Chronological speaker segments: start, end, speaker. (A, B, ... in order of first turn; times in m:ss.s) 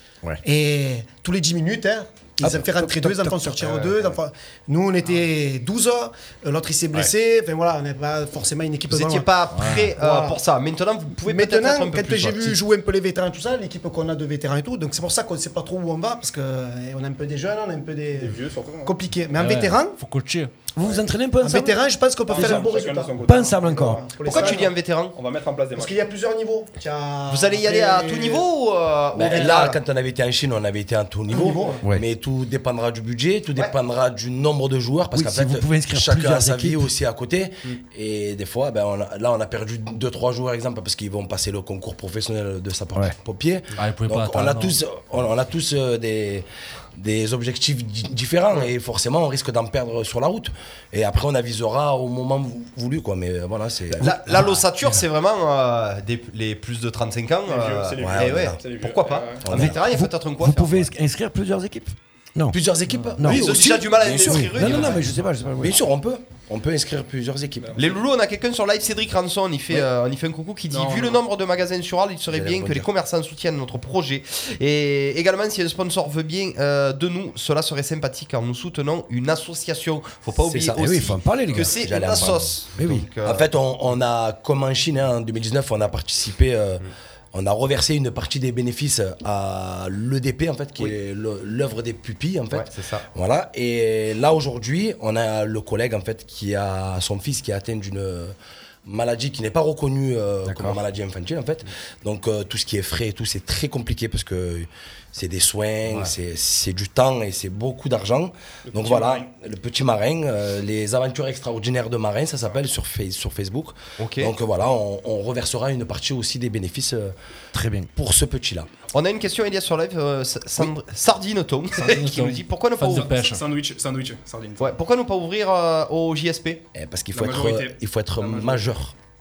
0:00.4-0:09.3 A
0:02.4-0:03.9 B
0:08.9-0:12.6 C
0:09.5-0:09.9 D
0:10.0-0:10.4 A
0:11.2-0:20.0 A
0:18.2-0:18.9 E
0:19.4-0:20.5 D
0:20.7-0:21.8 B
0:21.4-0:24.7 A
0:22.3-0:26.0 E
0:23.2-0:24.1 B
0:24.2-0:25.2 C
0:25.7-0:28.4 A
0:27.3-0:29.8 C
0:29.1-0:54.5 F
0:29.2-0:29.8 A
0:31.3-0:31.8 A
0:35.1-0:36.9 B
0:43.8-0:44.8 D
0:54.0-1:00.9 C
0:54.0-0:54.3 B
0:57.4-0:59.4 E
0:58.0-0:58.6 F
0:59.4-0:59.8 F
0:59.5-1:02.6 B
1:02.5-1:07.8 F
1:03.2-1:05.8 B
1:03.2-1:05.1 C
1:07.6-1:07.9 E
1:07.8-1:23.5 C
1:10.7-1:11.2 E
1:12.3-1:12.9 F
1:20.5-1:22.6 F
1:20.7-1:21.8 B
1:22.8-1:23.1 B
1:23.2-1:38.4 F
1:32.5-1:33.1 C
1:38.9-1:57.1 F
1:40.5-1:40.8 C
1:48.7-1:49.3 E
1:54.0-1:54.3 C
1:57.5-1:57.9 B
1:57.9-1:58.7 F
1:58.9-2:03.1 C
2:01.8-2:03.4 D
2:02.9-2:04.8 E
2:04.6-2:06.6 C
2:06.7-2:08.9 F
2:07.1-2:08.7 E